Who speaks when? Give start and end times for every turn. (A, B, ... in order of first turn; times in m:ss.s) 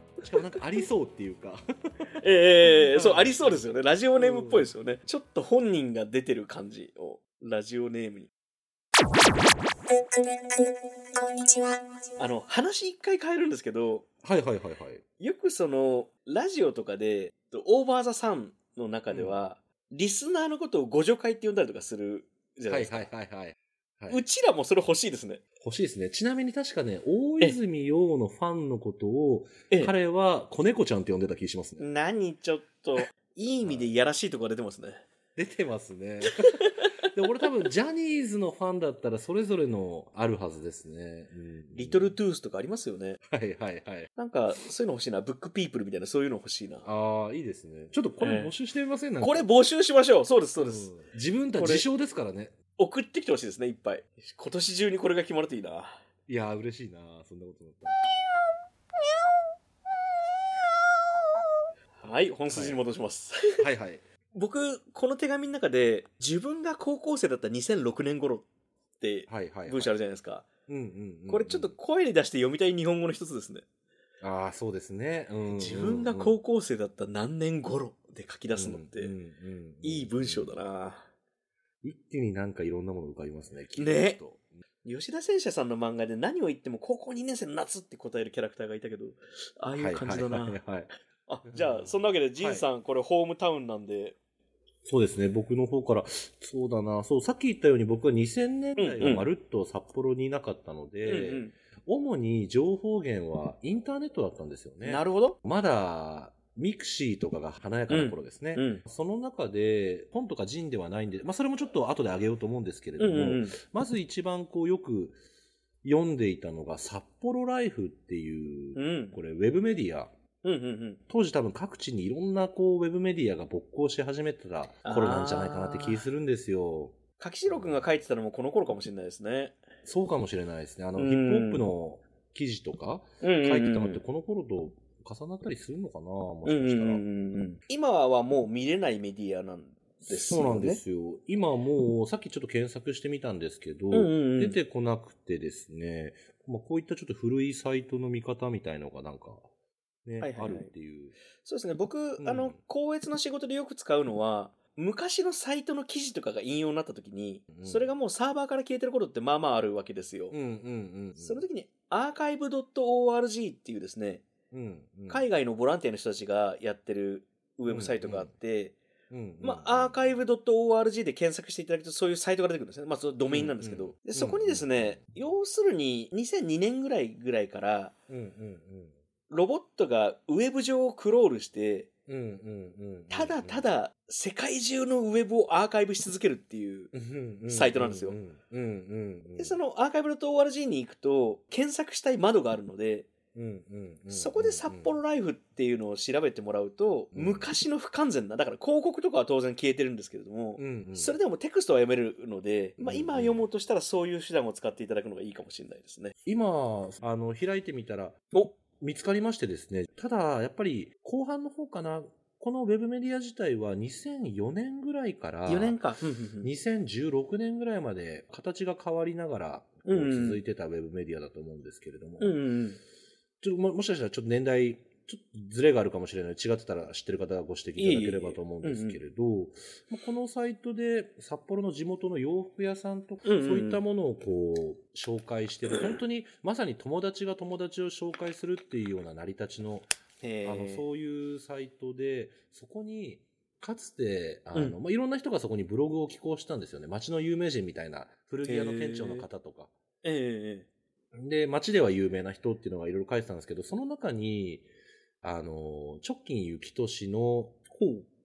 0:00.2-0:02.1 A
0:02.2-0:08.3 B
0:02.6-0:04.7 A
0:12.2-0:14.1 B
0:14.2-0:15.0 A
0:15.2-0:23.1 B
0:19.1-0:19.4 A
0:22.7-0:24.2 A
0:24.1-0:25.4 B
0:25.6-0:31.9 A
0:31.8-0:35.0 B
0:33.6-0:33.9 A
0:35.4-0:42.2 A
0:36.3-0:37.1 B
0:41.8-0:43.2 B
0:43.3-0:44.1 A
0:44.2-0:46.9 B
0:46.8-0:49.5 A
0:48.2-0:48.5 B
0:49.2-0:50.9 B
0:50.6-0:52.6 A
0:51.6-0:51.9 B
0:52.8-0:56.0 B
0:56.3-0:58.0 A
1:02.0-1:03.6 B
1:02.5-1:02.8 A
1:03.6-1:04.0 A
1:04.3-1:08.5 B
1:09.0-1:10.5 B
1:09.3-1:09.9 A
1:10.7-1:11.8 A
1:11.3-1:13.6 B
1:14.2-1:16.4 A
1:15.5-1:19.1 B
1:18.6-1:20.5 A
1:19.8-1:21.1 B
1:21.8-1:24.6 A
1:23.8-1:24.2 B
1:24.8-1:30.6 B
1:29.8-1:30.9 A
1:31.3-1:34.2 B
1:31.5-1:32.6 A
1:34.8-1:55.2 A
1:38.8-1:39.3 B
1:41.0-1:41.5 B
1:44.8-1:45.4 B
1:47.9-1:48.8 B
1:53.0-1:53.6 B
1:55.8-2:00.1 A
1:58.8-1:59.2 B
2:00.4-2:01.0 B
2:01.1-2:07.0 A
2:04.8-2:06.0 B
2:07.2-2:09.6 B
2:09.8-2:17.0 A
2:11.0-2:11.6 B
2:13.2-2:14.0 B
2:16.4-2:20.8 B
2:20.0-2:29.5 A
2:23.9-2:24.6 B
2:30.0-2:31.2 A
2:30.2-2:30.7 B
2:31.4-2:40.4 B
2:32.2-2:32.6 A
2:37.5-2:37.9 A
2:40.3-2:41.4 A
2:41.2-2:44.3 B
2:44.5-2:45.3 A
2:45.1-2:48.8 B
2:47.7-2:48.3 A
2:49.1-2:50.0 A
2:49.4-2:57.9 B
2:53.3-2:55.0 A
2:58.1-2:59.0 A
2:59.3-3:01.9 B
3:02.1-3:03.7 A
3:03.1-3:06.9 B
3:06.9-3:09.6 A
3:07.5-3:08.2 B
3:09.4-3:13.1 B
3:13.3-3:15.0 A
3:14.1-3:26.2 B
3:17.1-3:17.5 A
3:20.6-3:21.2 A
3:22.8-3:23.4 A
3:26.2-3:35.8 A
3:35.5-3:36.5 B
3:36.4-3:42.4 A
3:39.9-3:40.4 B
3:42.2-3:42.8 B
3:43.4-3:59.9 A
3:47.8-3:49.0 B
3:53.2-3:53.8 B
4:00.2-4:00.8 B
4:00.4-4:09.7 A
4:08.4-4:09.3 B
4:10.0-4:10.7 B
4:11.1-4:14.7 A
4:15.2-4:17.7 A
4:17.8-4:18.0 B